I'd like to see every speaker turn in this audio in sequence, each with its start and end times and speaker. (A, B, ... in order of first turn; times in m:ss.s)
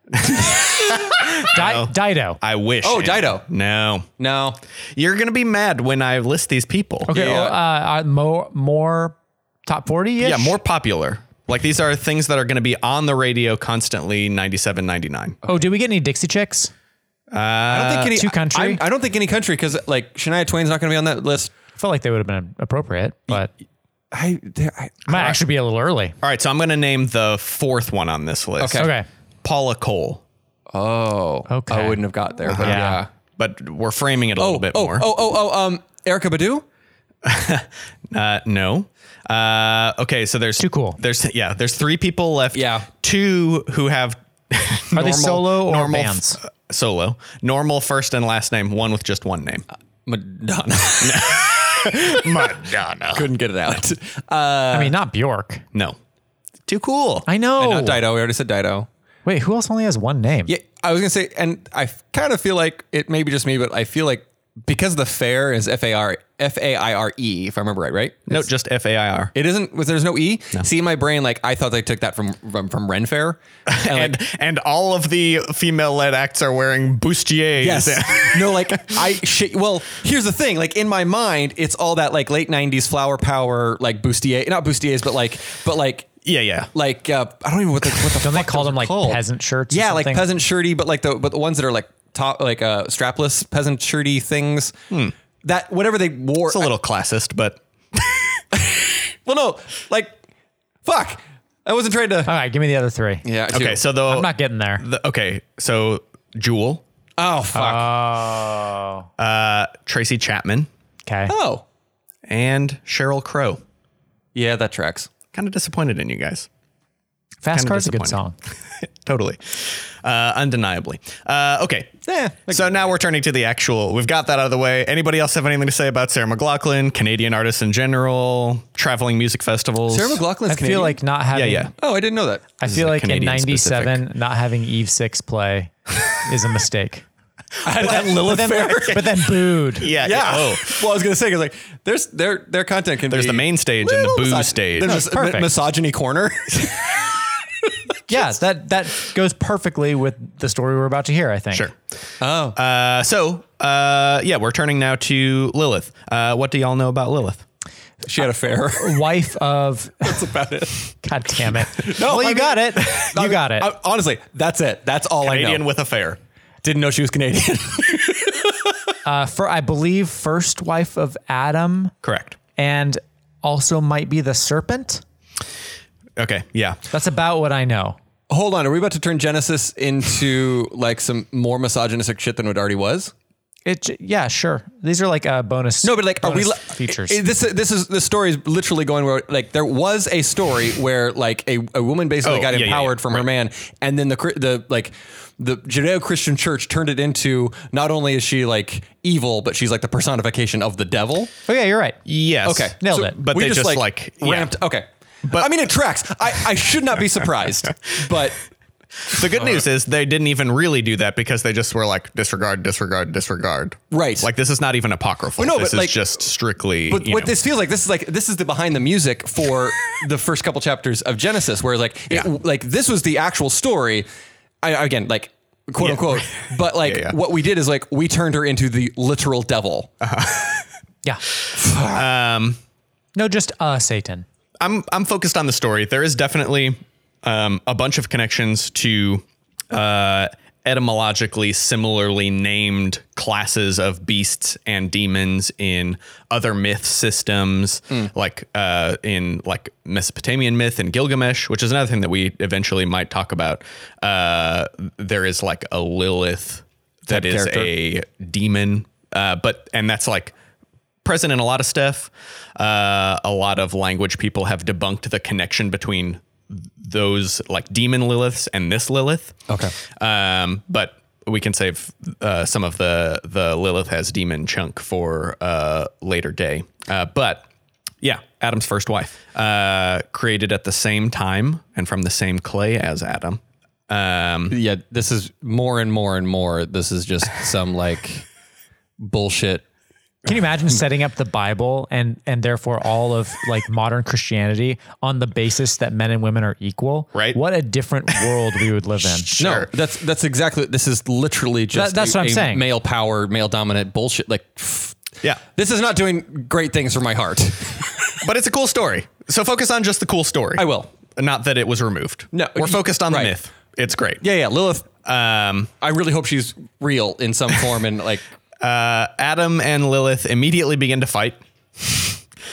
0:00.1-0:04.1 A
0:01.4-0:02.4 B
0:02.8-0:03.4 C
0:04.2-0:04.6 C
0:04.9-0:07.1 A
0:07.1-0:10.6 B
0:07.1-0:07.6 C
0:10.2-0:15.4 A
0:15.5-0:16.7 B
0:17.3-0:18.2 A
0:17.7-0:21.5 C
0:18.1-0:18.8 B
0:21.8-0:23.5 B
0:24.1-0:25.1 C
0:25.0-0:26.2 B
0:26.2-0:28.9 A
0:28.6-0:28.9 C
0:28.8-0:29.1 B
0:29.4-0:30.2 A
0:30.7-0:33.1 C
0:31.5-0:32.0 B
0:32.5-0:35.1 A
0:32.6-0:33.0 B
0:34.4-0:36.6 C
0:37.2-0:49.6 A
0:40.6-0:41.0 B
0:42.5-0:42.9 C
0:44.9-0:46.4 B
0:50.0-0:52.6 C
0:51.0-0:53.3 A
0:53.1-0:54.9 C
0:54.7-0:55.6 B
0:56.7-0:57.3 A
0:57.3-0:58.0 B
0:57.6-0:58.9 C
0:59.2-1:00.5 B
1:00.5-1:08.4 C
1:08.3-1:09.3 A
1:09.3-1:14.2 C
1:13.7-1:19.0 A
1:17.6-1:26.1 C
1:26.2-1:26.7 A
1:26.7-1:34.7 C
1:28.2-1:30.2 B
1:35.4-1:36.7 C
1:36.5-1:38.4 A
1:38.6-1:40.2 C
1:40.8-1:42.3 C
1:42.2-1:43.2 B
1:43.2-1:43.8 C
1:43.5-1:46.8 A
1:44.1-1:44.8 B
1:47.2-1:47.9 C
1:47.5-1:49.1 B
1:49.2-1:50.7 A
1:51.0-1:51.3 B
1:51.3-1:51.6 C
1:52.2-1:53.6 A
1:54.3-1:55.1 C
1:55.3-1:56.5 A
1:57.4-1:58.3 B
1:57.5-1:58.2 A
1:59.0-2:02.0 A
2:02.0-2:02.8 C
2:02.5-2:10.2 A
2:09.9-2:11.0 C
2:10.5-2:11.7 B
2:11.3-2:11.7 A
2:11.8-2:12.5 C
2:12.6-2:17.0 B
2:12.6-2:14.0 A
2:17.6-2:27.0 C
2:17.8-2:19.9 B
2:19.7-2:20.8 A
2:23.1-2:25.0 A
2:24.8-2:25.5 B
2:28.1-2:31.7 B
2:32.2-2:32.6 C
2:32.5-2:37.4 A
2:38.0-2:39.1 C
2:38.8-2:40.2 B
2:40.0-2:40.9 C
2:41.0-2:43.7 B
2:41.7-2:45.6 C
2:45.2-2:46.2 A
2:46.6-2:48.6 C
2:49.0-2:51.9 B
2:52.0-2:52.4 A
2:52.6-2:55.0 B
2:56.2-2:56.8 A
2:56.9-2:58.0 B
2:58.3-3:03.1 C
3:03.6-3:07.2 B
3:05.8-3:21.3 C
3:12.2-3:13.3 A
3:21.5-3:22.0 B
3:22.0-3:24.5 A
3:22.4-3:28.4 C
3:22.8-3:23.2 B
3:29.0-3:37.3 A
3:29.2-3:29.6 C
3:33.9-3:34.3 C
3:35.4-3:36.2 C
3:36.9-3:44.0 C
3:44.6-3:49.9 C
3:45.8-3:47.2 A
3:50.0-3:50.6 A
3:51.4-3:52.6 A
3:51.5-3:52.1 C
3:53.1-3:54.2 B
3:54.6-4:20.3 A
4:17.1-4:17.7 C
4:21.0-4:29.4 A
4:29.5-4:29.7 C
4:29.9-4:37.4 A
4:38.0-4:44.6 A
4:44.5-4:48.2 C
4:49.0-4:49.6 C
4:50.2-4:59.3 B
4:57.1-4:57.4 A
4:59.2-4:59.7 A
4:59.4-5:08.2 C
5:01.7-5:02.6 B
5:08.2-5:14.2 A
5:10.6-5:10.9 C
5:12.3-5:13.4 C
5:14.2-5:14.9 C
5:15.0-5:15.7 A
5:15.8-5:18.2 C
5:18.6-5:22.2 A